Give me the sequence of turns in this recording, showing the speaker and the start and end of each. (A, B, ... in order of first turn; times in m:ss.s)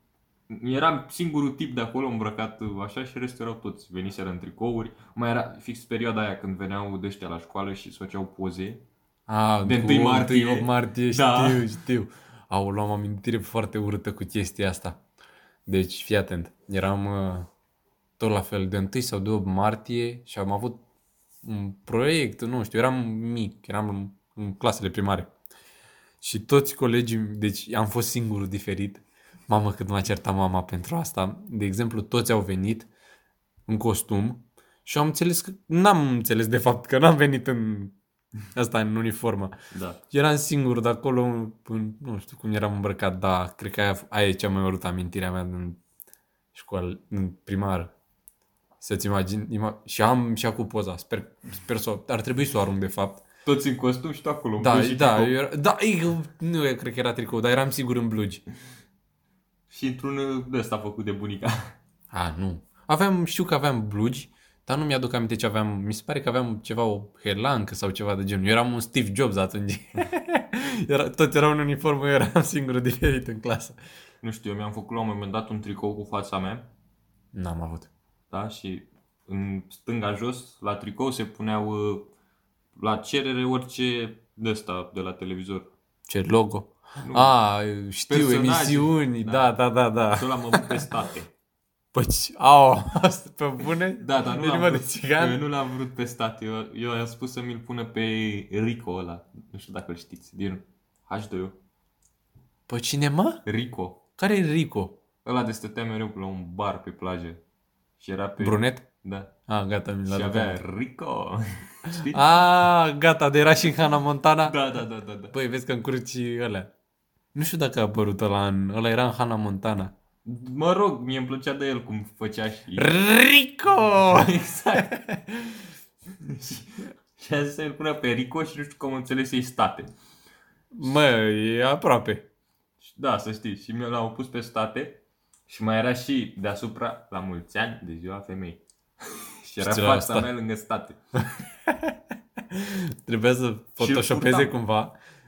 0:00.5-0:08.8 A
0:09.3-0:15.0 B
0:09.6-0:11.7 A
0:15.6-0:17.5 B
0:18.2-0:20.8 B
0:21.4-0:25.3 B
0:26.2-0:32.9 B
0:33.7-0:37.9 B
0:38.5-0:39.5 B
0:39.7-0:40.0 A
0:40.1-0:45.8 B
0:46.5-0:47.9 B
0:48.8-0:53.2 B
0:53.4-0:55.4 A
0:54.6-0:58.4 B
0:59.7-1:01.7 A
1:02.1-1:13.8 B
1:14.2-1:16.7 A
1:17.3-1:17.9 B
1:18.3-1:22.1 A
1:22.8-1:25.7 A
1:26.1-1:30.9 B
1:27.0-1:27.4 A
1:28.1-1:29.5 A
1:30.1-1:31.3 A
1:31.9-1:35.4 B
1:34.0-1:41.6 A
1:42.7-1:43.4 B
1:43.4-1:44.0 A
1:44.2-1:45.0 B
1:45.2-1:47.4 A
1:48.0-1:49.3 A
1:48.4-1:48.8 B
1:49.5-1:50.6 B
1:50.1-1:52.2 A
1:51.9-1:54.6 B
1:54.4-1:55.4 A
1:55.3-1:56.7 B
1:57.3-1:59.9 B
2:00.2-2:03.0 A
2:02.8-2:05.7 B
2:03.8-2:04.9 A
2:06.2-2:09.9 A
2:10.7-2:12.2 B
2:12.8-2:21.0 A
2:19.6-2:20.3 B
2:21.4-2:22.0 B
2:22.5-2:24.9 B
2:23.8-2:24.6 A